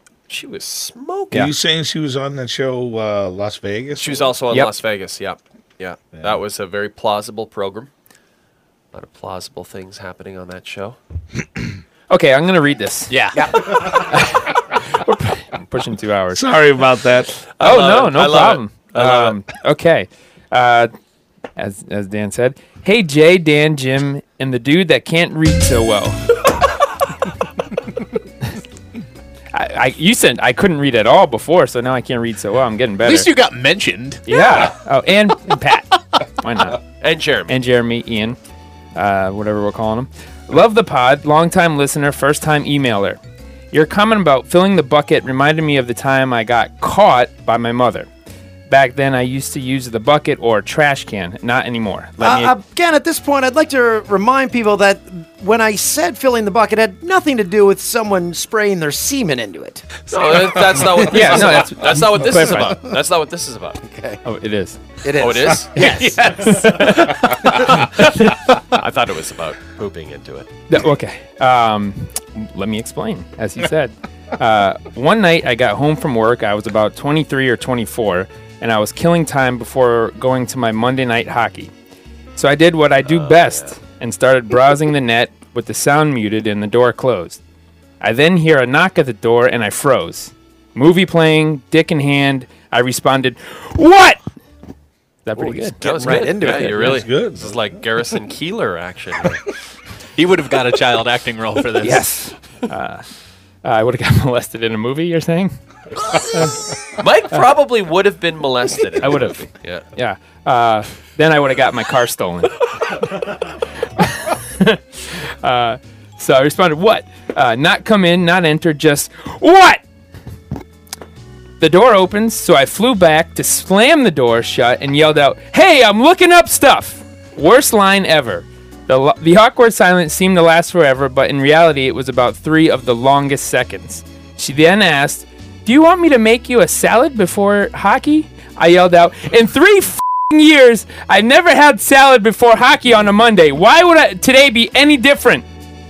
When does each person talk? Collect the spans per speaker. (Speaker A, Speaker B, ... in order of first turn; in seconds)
Speaker A: 0.3-1.5, 4.0-7.9, 8.9-11.0, 17.6-19.3, 37.0-37.5, 60.1-63.8, 65.2-66.1, 68.7-70.5, 83.0-83.7, 95.4-99.4, 107.0-109.8
Speaker B: 1.3-4.3, 16.3-17.3, 96.8-97.6
Speaker C: 12.1-13.3, 13.9-16.4, 17.6-20.9, 21.6-26.2, 29.5-33.3, 34.2-36.8, 37.5-38.4, 38.9-43.2, 43.7-48.1, 48.7-52.5, 61.0-62.9, 64.2-64.8, 66.4-68.4, 70.7-81.7, 82.3-87.4, 88.0-94.2, 95.2-96.2, 101.8-103.0, 103.6-105.6, 106.3-106.6, 109.0-112.5, 114.0-119.8, 121.6-145.4
Speaker D: 13.1-13.4, 33.0-34.4, 100.2-102.1
Speaker E: 52.2-60.0, 60.8-61.4, 63.8-64.2, 65.0-67.6, 95.8-97.0